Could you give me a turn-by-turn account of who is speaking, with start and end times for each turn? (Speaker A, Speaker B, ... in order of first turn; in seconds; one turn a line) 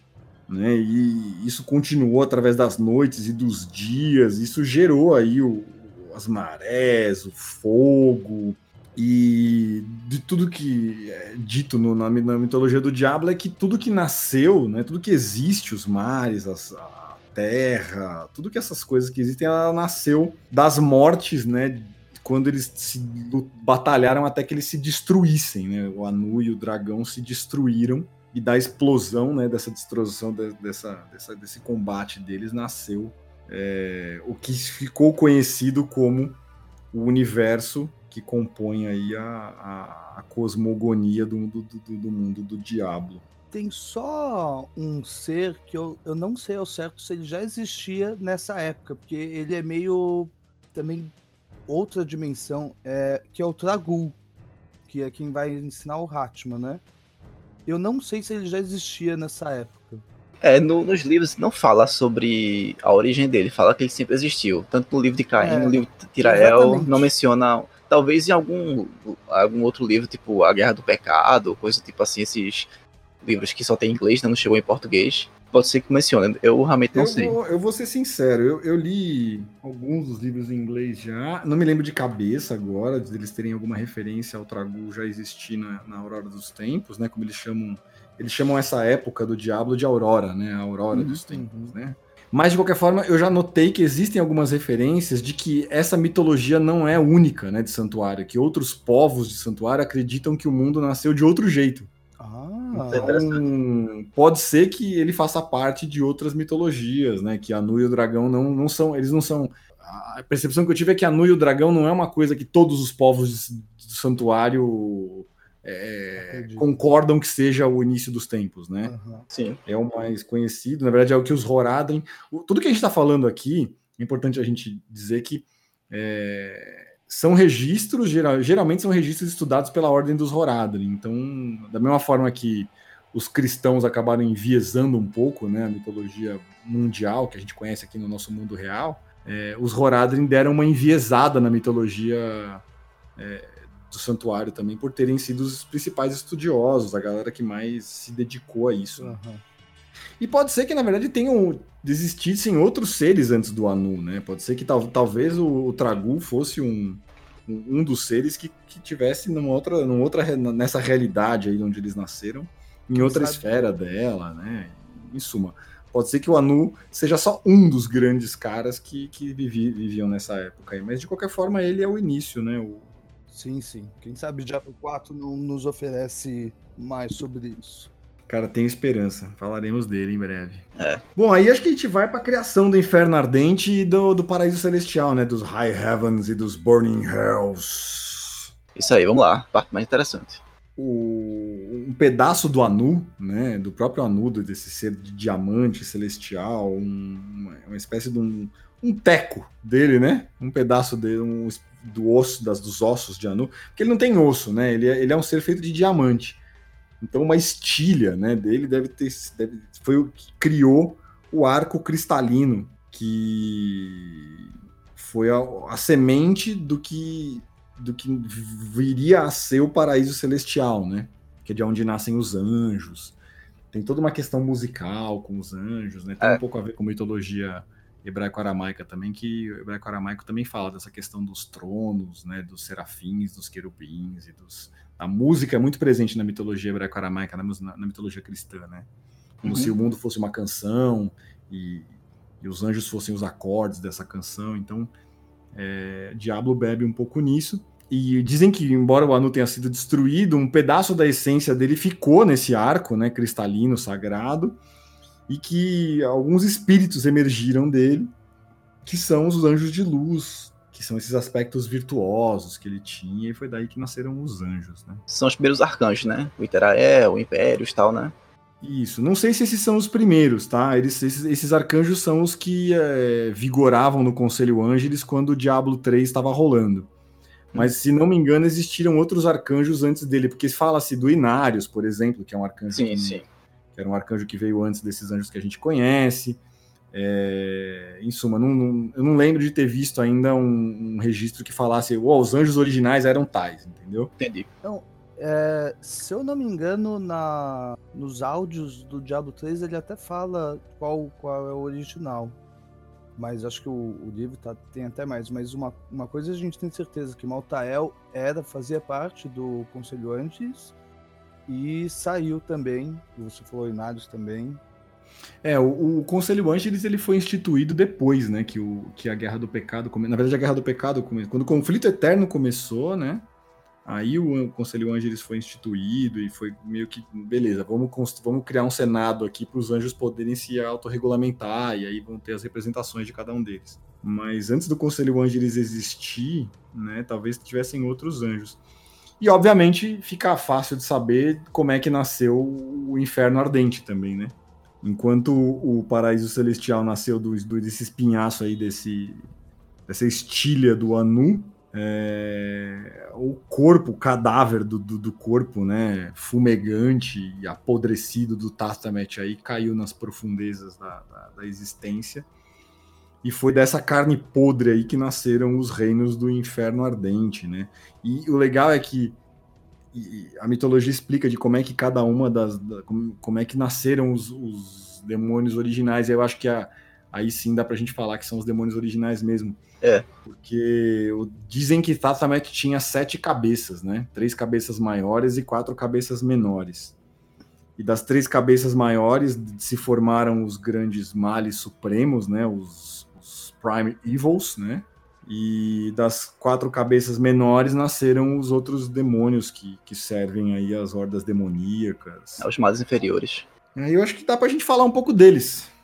Speaker A: 0.5-36.4
Speaker A: 36.9-43.2
Speaker B: 43.5-51.1
Speaker B: 51.7-54.2
Speaker B: 54.9-56.8
Speaker B: 57.6-60.0
Speaker C: 60.4-72.7
Speaker B: 65.4-67.1
Speaker C: 73.2-77.3
Speaker A: 76.9-101.9
Speaker C: 90.9-91.2
Speaker B: 91.3-91.7
Speaker B: 102.2-103.1
Speaker C: 102.9-103.5
Speaker A: 102.9-118.9
Speaker B: 116.2-116.8
Speaker B: 118.8-119.2
Speaker C: 119.3-119.6
Speaker A: 119.7-142.6
Speaker A: 143.2-149.2
Speaker B: 149.0-149.4
Speaker A: 150.2-172.9
Speaker B: 162.9-163.4
Speaker B: 173.3-177.9
Speaker A: 178.3-180.6
Speaker C: 180.8-181.0
Speaker A: 181.2-188.5
Speaker C: 188.8-190.4
Speaker A: 190.8-206.4
Speaker A: 207.0-223.2
Speaker A: 223.7-238.9
Speaker C: 239.4-239.7
Speaker A: 239.4-244.9
Speaker A: 245.5-254.6
Speaker A: 255.3-258.1
Speaker A: 258.8-265.0
Speaker C: 265.1-268.1
Speaker A: 268.6-276.9
Speaker A: 277.5-283.2
Speaker C: 282.7-283.2
Speaker A: 283.8-286.4
Speaker A: 286.9-294.1
Speaker C: 294.2-294.5
Speaker B: 294.6-302.4
Speaker B: 303.1-310.7
Speaker B: 311.5-314.6
Speaker A: 315.4-323.2
Speaker A: 323.8-338.6
Speaker A: 339.2-349.2
Speaker A: 349.9-362.3
Speaker A: 363.2-369.2
Speaker A: 369.9-379.6
Speaker C: 379.8-380.1
Speaker A: 380.2-386.9
Speaker A: 387.8-402.4
Speaker C: 402.4-403.4
Speaker A: 403.8-405.7